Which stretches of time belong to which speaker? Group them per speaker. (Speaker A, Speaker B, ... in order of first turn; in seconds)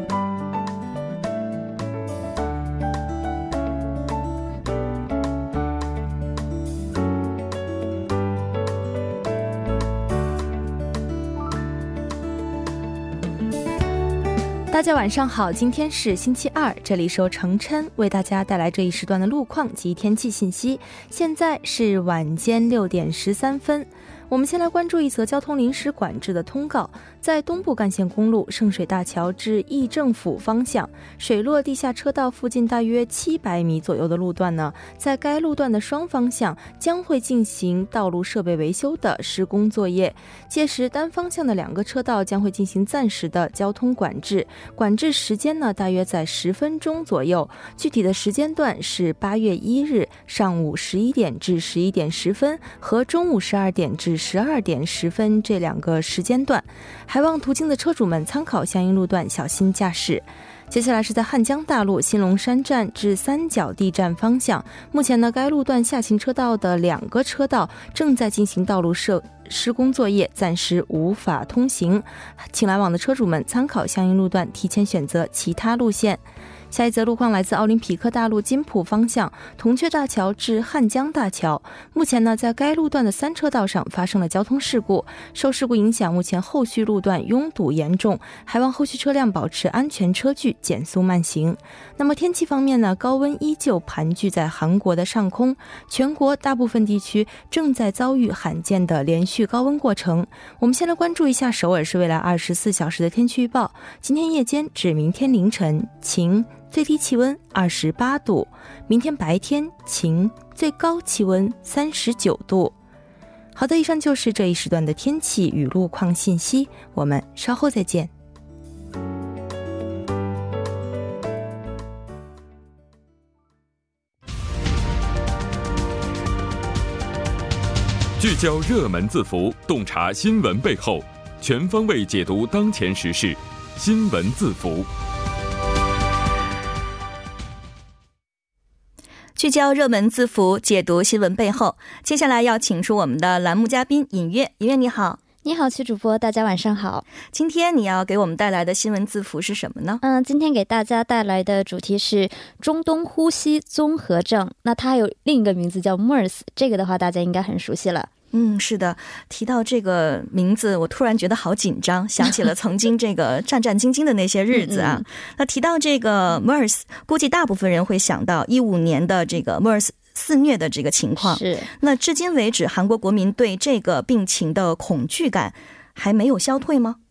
Speaker A: 14.7-112.8, 113.5-118.1
Speaker B: 128.2-134.9
Speaker C: 139.4-145.2, 147.3-150.0, 158.3-177.0
Speaker D: 145.4-147.1, 150.0-158.1, 164.5-165.0, 171.2-171.7